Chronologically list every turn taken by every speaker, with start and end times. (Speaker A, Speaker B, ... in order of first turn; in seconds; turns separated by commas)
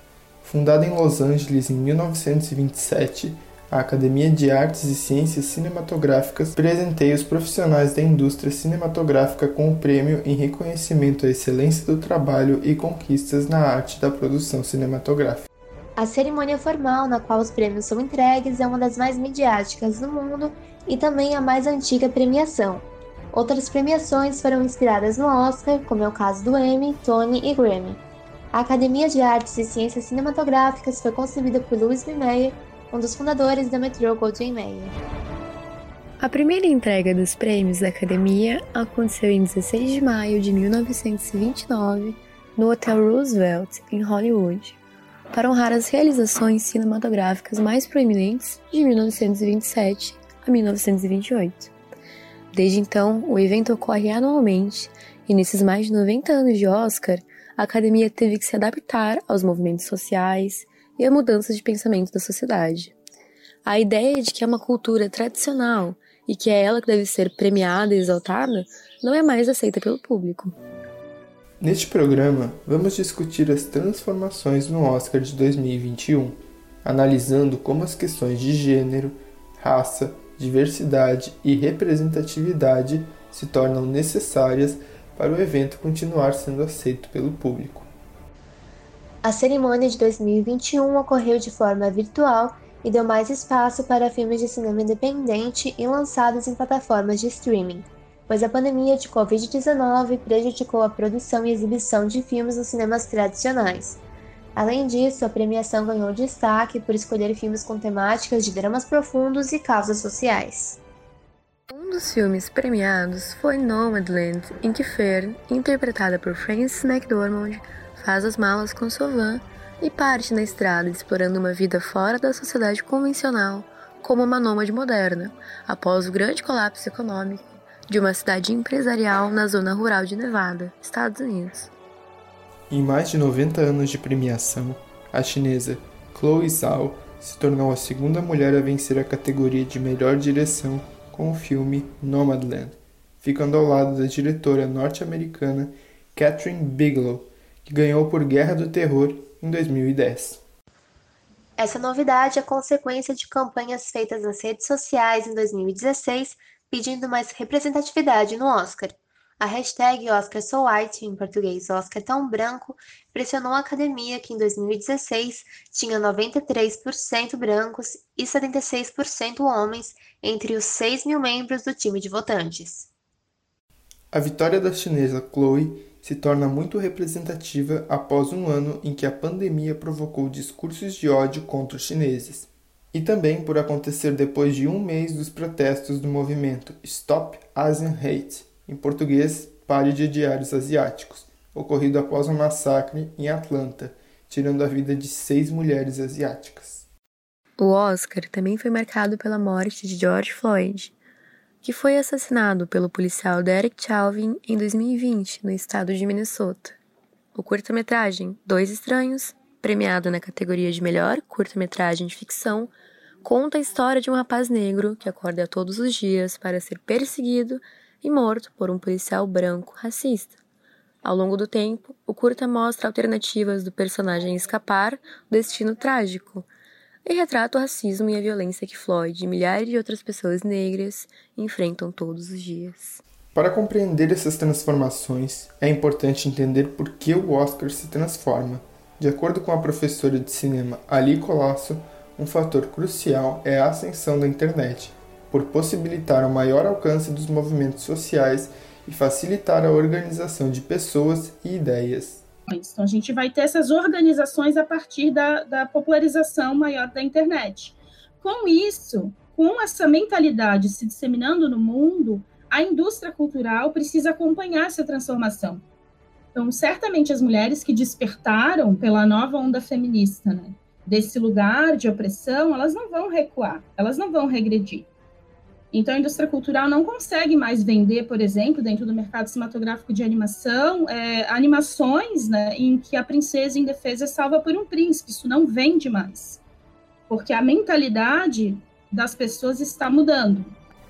Speaker A: 0.4-15.5, Speaker B: 16.0-28.0, Speaker B: 28.5-35.0, Speaker C: 36.2-44.8, Speaker C: 45.3-51.7, Speaker C: 52.5-62.9, Speaker C: 63.6-70.6, Speaker A: 71.6-87.9, Speaker B: 89.2-104.0, Speaker B: 104.5-110.8, Speaker C: 111.7-131.7, Speaker A: 132.7-150.4, Speaker B: 151.6-172.9, Speaker A: 174.1-196.9, Speaker C: 197.6-200.9, Speaker C: 201.6-206.8, Speaker C: 207.3-220.3, Speaker C: 221.0-226.5, Speaker C: 227.0-233.0, Speaker A: 233.3-252.2, Speaker D: 252.5-265.6, Speaker D: 266.3-274.9, Speaker D: 275.7-286.4, Speaker D: 287.1-290.5